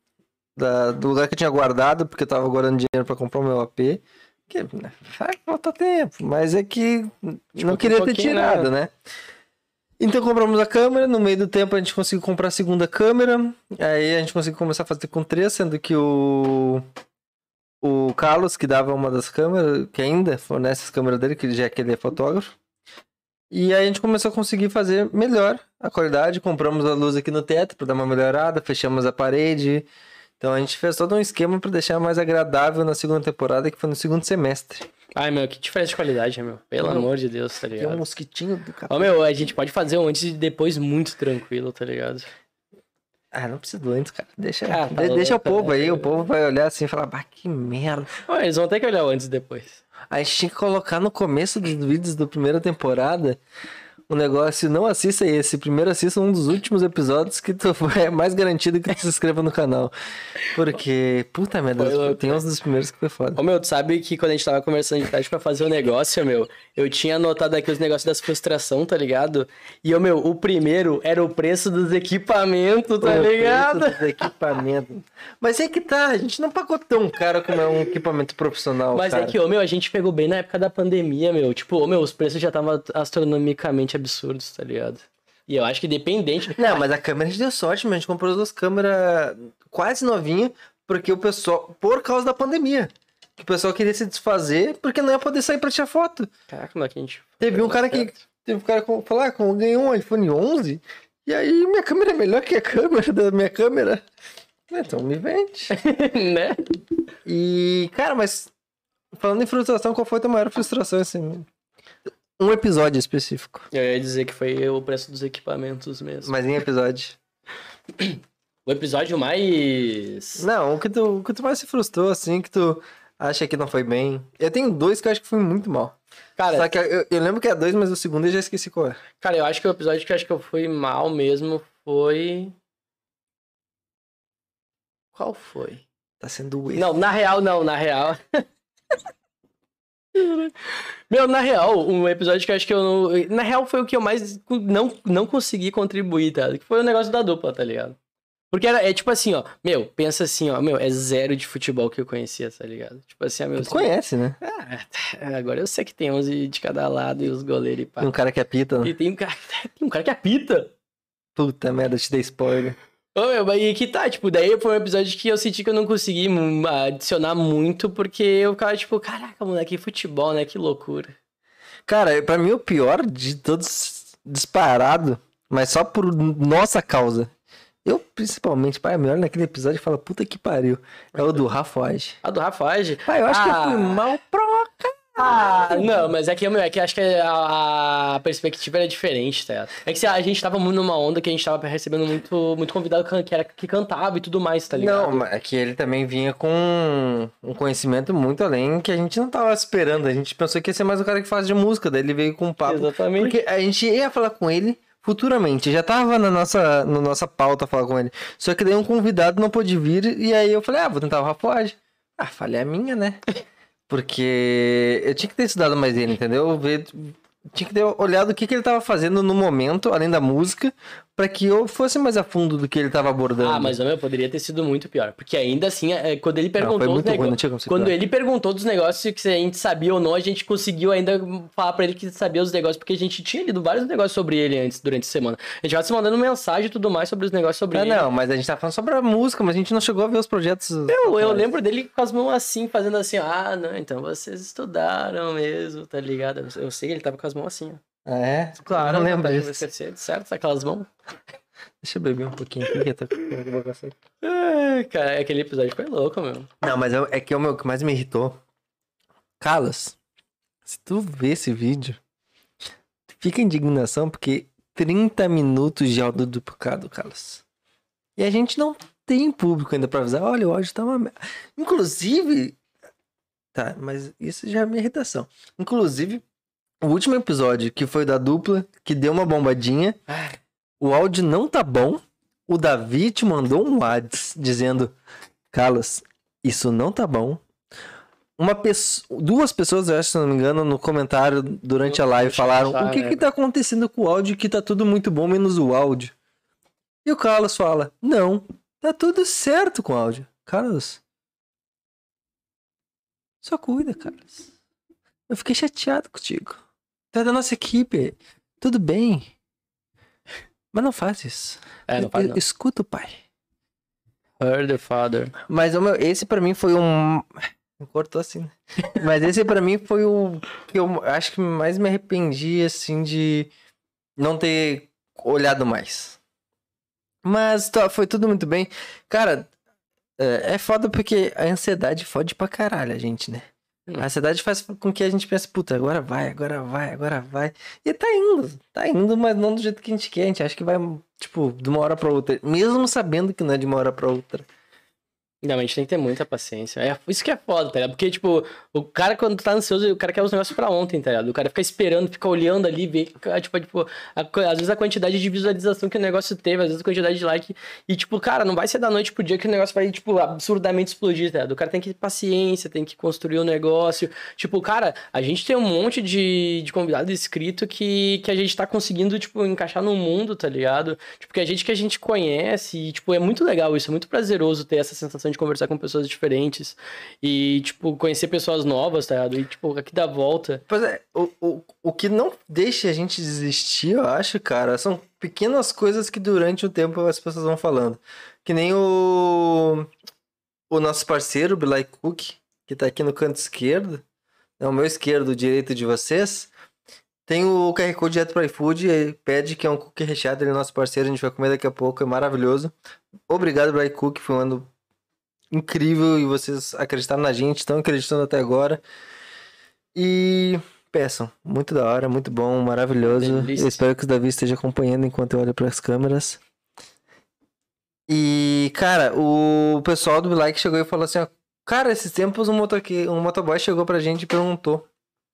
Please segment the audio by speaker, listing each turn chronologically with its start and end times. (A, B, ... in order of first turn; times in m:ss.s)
0:00.6-0:08.9 A
0:07.6-0:08.7 B
0:10.0-0:16.8 A
0:17.8-0:22.5 A
0:23.5-0:29.9 A
0:30.4-0:34.9 A
0:35.2-0:38.0 B
0:36.8-0:37.1 A
0:37.8-0:39.3 A
0:38.9-0:42.3 B
0:43.3-0:48.1 A
0:44.7-0:46.2 B
0:48.3-0:49.8 B
0:50.1-0:53.4 A
0:54.1-0:59.9 A
1:00.5-1:03.4 A
1:01.8-1:02.4 B
1:03.4-1:14.3 B
1:13.0-1:19.4 A
1:18.9-1:26.8 B
1:26.6-1:36.3 A
1:36.5-1:38.2 B
1:37.4-1:44.0 A
1:44.7-1:45.7 A
1:45.7-1:46.7 B
1:47.3-1:48.5 A
1:49.1-1:51.5 A
1:52.4-1:53.7 A
1:53.7-1:56.3 B
1:56.2-1:57.2 A
1:58.0-2:00.4 B
2:00.4-2:06.0 A
2:06.4-2:06.7 B
2:06.5-2:09.0 A
2:09.2-2:12.6 B
2:15.2-2:15.8 B
2:16.2-2:16.9 A
2:16.8-2:18.5 B
2:20.1-2:28.0 B
2:28.5-2:33.9 B
2:33.6-2:34.4 A
2:34.4-2:38.1 B
2:38.0-2:38.9 A
2:38.8-2:40.7 B
2:41.4-2:42.8 A
2:43.2-2:51.2 B
2:51.9-2:57.3 A
2:57.8-3:02.2 A
3:01.1-3:01.4 B
3:02.2-3:04.0 B
3:03.1-3:05.9 A
3:05.2-3:15.3 B
3:14.7-3:33.2 A
3:22.6-3:23.4 B
3:33.9-3:43.8 A
3:43.4-3:58.1 B
3:46.6-3:48.0 A
3:57.7-4:01.5 A
4:00.9-4:07.8 B
4:08.1-4:09.7 A
4:08.7-4:10.9 B
4:11.8-4:14.0 A
4:14.2-4:16.5 B
4:16.6-4:18.4 A
4:19.4-4:20.0 A
4:20.7-4:22.0 A
4:23.1-4:27.4 A
4:28.2-4:32.6 A
4:33.6-4:36.2 A
4:36.8-4:40.2 A
4:40.8-4:44.9 A
4:45.5-4:47.4 A
4:48.4-4:56.1 A
4:51.8-4:53.2 B
4:57.0-5:01.0 A
5:03.4-5:04.5 A
5:05.3-5:09.3 A
5:10.7-5:13.2 A
5:11.9-5:12.4 B
5:14.4-5:15.3 B
5:15.5-5:23.5 A
5:24.2-5:26.2 A
5:27.2-5:29.5 A
5:30.2-5:33.5 A
5:34.0-5:44.5 A
5:45.4-6:20.6 B
6:20.7-6:29.9 A
6:30.7-6:34.0 A
6:34.6-6:36.5 A
6:37.3-6:42.7 A
6:43.3-6:44.7 A
6:45.5-6:48.8 A
6:50.0-6:56.4 A
6:53.0-6:53.8 B
6:58.1-7:04.9 A